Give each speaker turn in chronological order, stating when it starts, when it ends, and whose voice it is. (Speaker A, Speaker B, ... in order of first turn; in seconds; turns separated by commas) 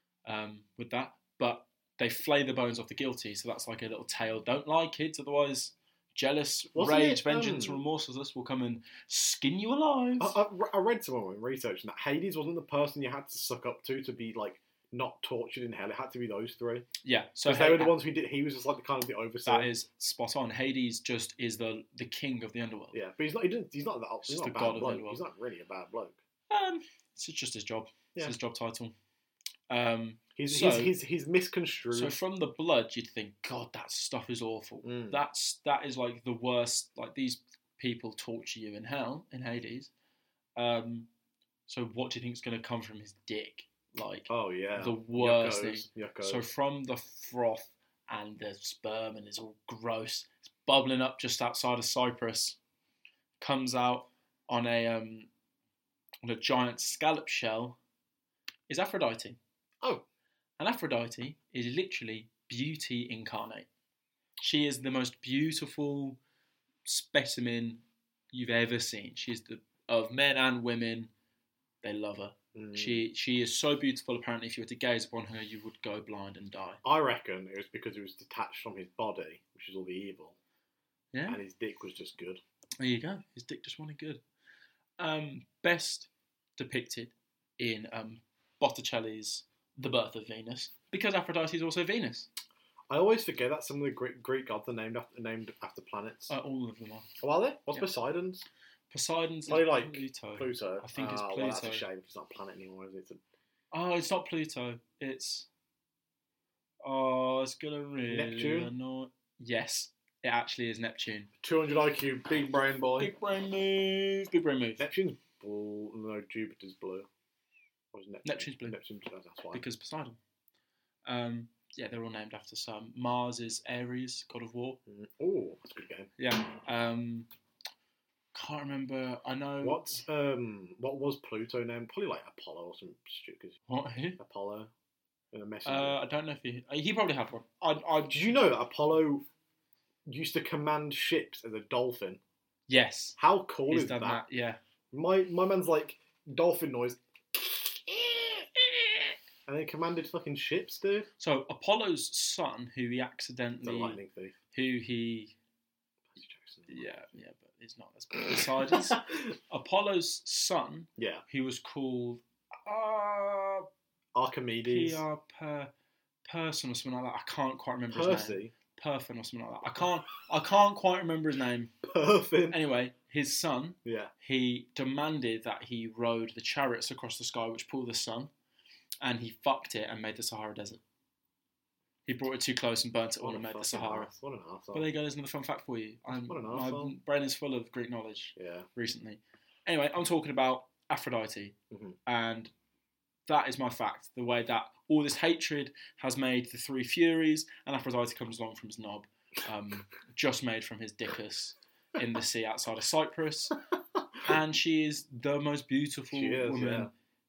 Speaker A: 0.2-10.4, Speaker B: 6.7-7.8, Speaker B: 10.2-16.9, Speaker A: 17.0-18.0, Speaker B: 17.4-19.7, Speaker A: 19.4-23.0, Speaker B: 22.9-26.2, Speaker A: 24.2-25.2, Speaker A: 26.5-28.9, Speaker A: 29.7-30.9, Speaker B: 30.4-32.1, Speaker A: 31.9-39.9, Speaker B: 34.8-35.2, Speaker A: 40.5-41.1, Speaker A: 41.7-52.6, Speaker B: 44.3-46.5, Speaker A: 53.4-55.3, Speaker A: 56.2-57.8, Speaker A: 58.7-59.4, Speaker A: 60.6-63.7, Speaker A: 64.4-66.2, Speaker A: 66.8-71.1, Speaker A: 71.8-76.8, Speaker B: 72.5-73.0, Speaker B: 76.8-80.3, Speaker A: 81.1-81.4, Speaker B: 81.3-82.4, Speaker A: 82.8-84.2, Speaker A: 85.0-92.3, Speaker B: 92.9-96.3, Speaker A: 96.3-97.1, Speaker B: 97.2-98.5, Speaker A: 98.9-101.8, Speaker B: 99.5-103.2, Speaker A: 103.7-105.5, Speaker A: 106.8-111.3, Speaker B: 108.1-108.7, Speaker B: 111.4-113.1, Speaker A: 113.0-114.8, Speaker B: 114.8-117.1, Speaker B: 117.9-119.6, Speaker A: 118.2-118.8, Speaker A: 119.5-120.2, Speaker A: 121.0-124.8, Speaker B: 124.9-126.1, Speaker A: 126.2-127.3, Speaker A: 128.3-130.0, Speaker B: 129.6-133.6, Speaker A: 133.7-134.2, Speaker B: 134.2-134.7, Speaker B: 135.3-136.0, Speaker A: 135.6-138.3, Speaker B: 138.1-139.2, Speaker B: 140.1-142.2, Speaker A: 142.7-144.6, Speaker B: 143.2-144.2, Speaker B: 144.9-148.8, Speaker B: 149.4-151.1, Speaker A: 151.2-154.0, Speaker B: 153.6-154.3, Speaker A: 154.5-155.3, Speaker B: 156.1-156.9, Speaker A: 156.7-163.7, Speaker B: 158.3-159.1, Speaker B: 161.0-161.2, Speaker B: 164.1-165.0, Speaker A: 164.7-165.7, Speaker A: 166.2-171.7, Speaker B: 167.9-168.5, Speaker B: 171.8-172.6, Speaker A: 172.5-178.3, Speaker B: 173.8-174.1, Speaker A: 179.0-180.8, Speaker A: 182.1-184.1, Speaker B: 183.2-184.8, Speaker A: 184.7-192.5, Speaker B: 186.1-186.9, Speaker B: 188.4-188.7, Speaker B: 191.7-191.9, Speaker A: 193.3-203.6, Speaker A: 204.2-206.9, Speaker B: 206.1-206.9